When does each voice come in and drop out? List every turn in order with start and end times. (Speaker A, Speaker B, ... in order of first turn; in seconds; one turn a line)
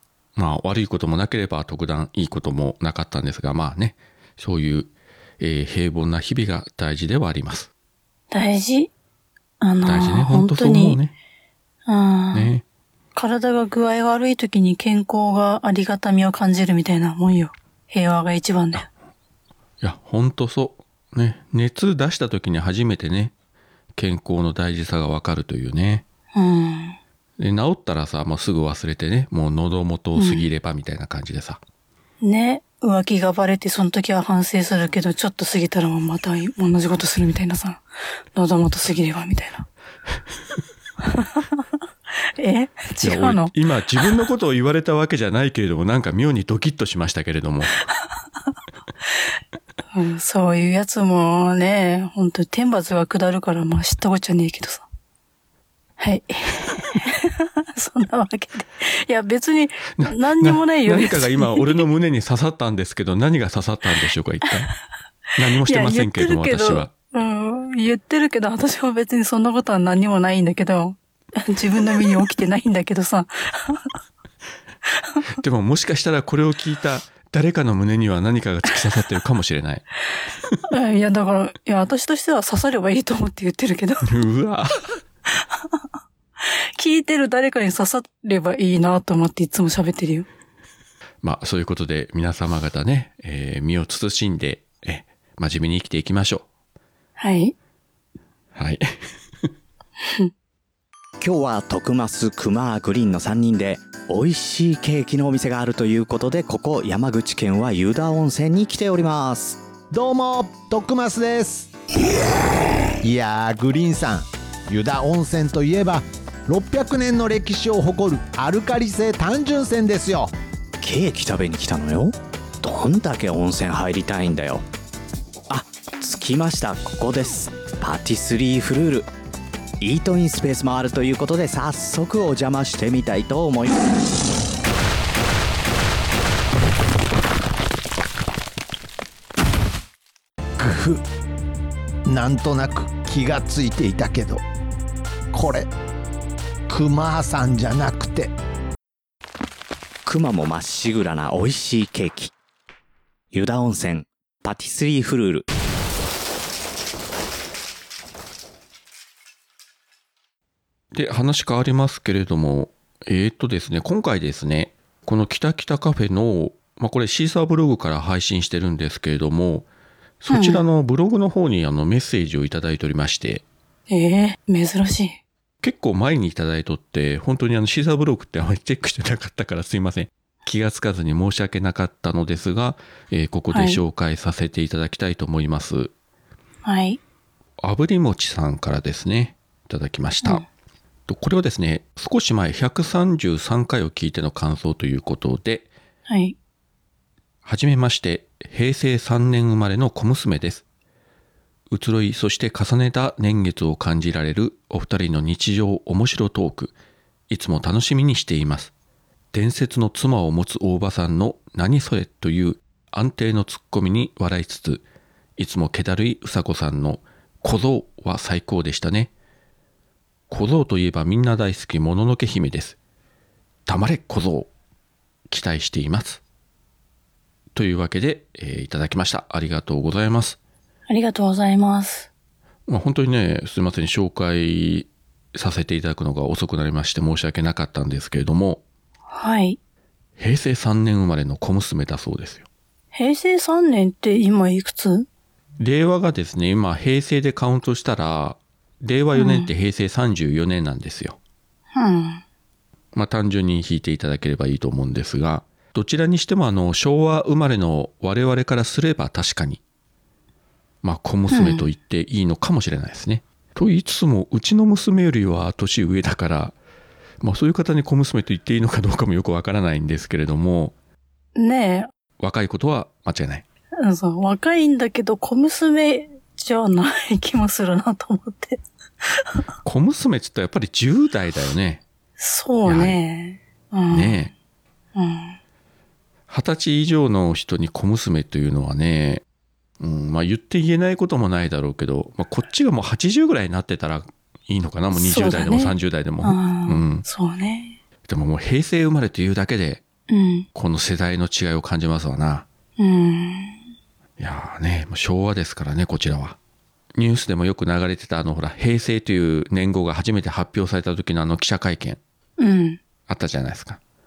Speaker A: 0.4-7.7
Speaker B: 8.3-8.9
Speaker B: 9.6-11.0
Speaker A: 9.8-11.1
Speaker B: 11.9-12.5
Speaker A: 12.3-12.6
Speaker B: 13.2-18.9
Speaker A: 19.8-23.3
Speaker A: 24.0-26.0
Speaker B: 26.4-27.0
Speaker A: 27.4-31.6
Speaker B: 30.2-30.4
Speaker B: 32.2-37.8
Speaker B: 38.3-39.7
Speaker B: 41.1-41.6
Speaker B: 42.4-44.1
Speaker A: 43.0-47.8
Speaker B: 49.9-54.9
Speaker B: 56.0-61.8
Speaker A: 60.0-64.7
Speaker A: 65.4-66.9
Speaker B: 65.7-73.9
Speaker A: 75.4-79.8
Speaker B: 80.7-84.1
Speaker A: 84.0-85.0
Speaker B: 85.4-85.8
Speaker B: 86.4-90.3
Speaker A: 91.2-96.5
Speaker B: 97.2-97.5
Speaker A: 98.5-98.9
Speaker B: 100.0-100.3
Speaker C: 101.2-109.6
Speaker D: 109.9-111.7
Speaker D: 113.0-120.3
Speaker C: 120.8-124.7
Speaker C: 125.5-129.1
Speaker C: 129.8-133.8
Speaker D: 140.6-141.0
Speaker D: 142.1-144.4
Speaker D: 145.3-145.7
Speaker D: 146.7-148.3
Speaker C: 150.1-152.3
Speaker C: 153.3-155.5
Speaker A: 160.9-169.7
Speaker A: 170.2-173.4
Speaker B: 170.3-170.6
Speaker B: 173.9-175.2
Speaker A: 175.6-185.9
Speaker B: 183.5-183.8
Speaker B: 186.7-187.0
Speaker A: 187.6-190.4
Speaker A: 191.1-195.7
Speaker B: 196.1-196.4
Speaker A: 197.4-200.6
Speaker A: 201.7-206.7
Speaker A: 207.3-208.7
Speaker A: 209.3-214.8
Speaker A: 215.4-219.1
Speaker A: 220.3-222.8
Speaker A: 223.7-224.5
Speaker A: 225.3-226.2
Speaker A: 227.6-230.4
Speaker B: 230.9-232.1
Speaker A: 232.7-238.6
Speaker B: 239.1-239.6
Speaker A: 240.2-242.5
Speaker B: 242.9-245.1
Speaker A: 245.6-251.2
Speaker B: 249.2-249.5
Speaker B: 251.7-252.2
Speaker A: 252.9-259.6
Speaker A: 260.8-266.6
Speaker B: 261.3-261.7
Speaker A: 267.2-270.8
Speaker B: 271.4-271.9
Speaker A: 272.2-273.4
Speaker B: 273.8-278.6
Speaker A: 279.6-281.8
Speaker B: 282.2-284.2
Speaker A: 282.7-283.0
Speaker A: 283.9-284.3
Speaker B: 285.0-285.4
Speaker A: 286.3-289.2
Speaker A: 289.8-297.1
Speaker B: 294.9-297.8
Speaker A: 298.1-299.8
Speaker B: 300.1-300.5
Speaker A: 300.6-302.5
Speaker B: 302.8-303.6
Speaker A: 304.2-306.4
Speaker A: 306.9-312.0
Speaker B: 312.4-312.8
Speaker A: 313.1-313.8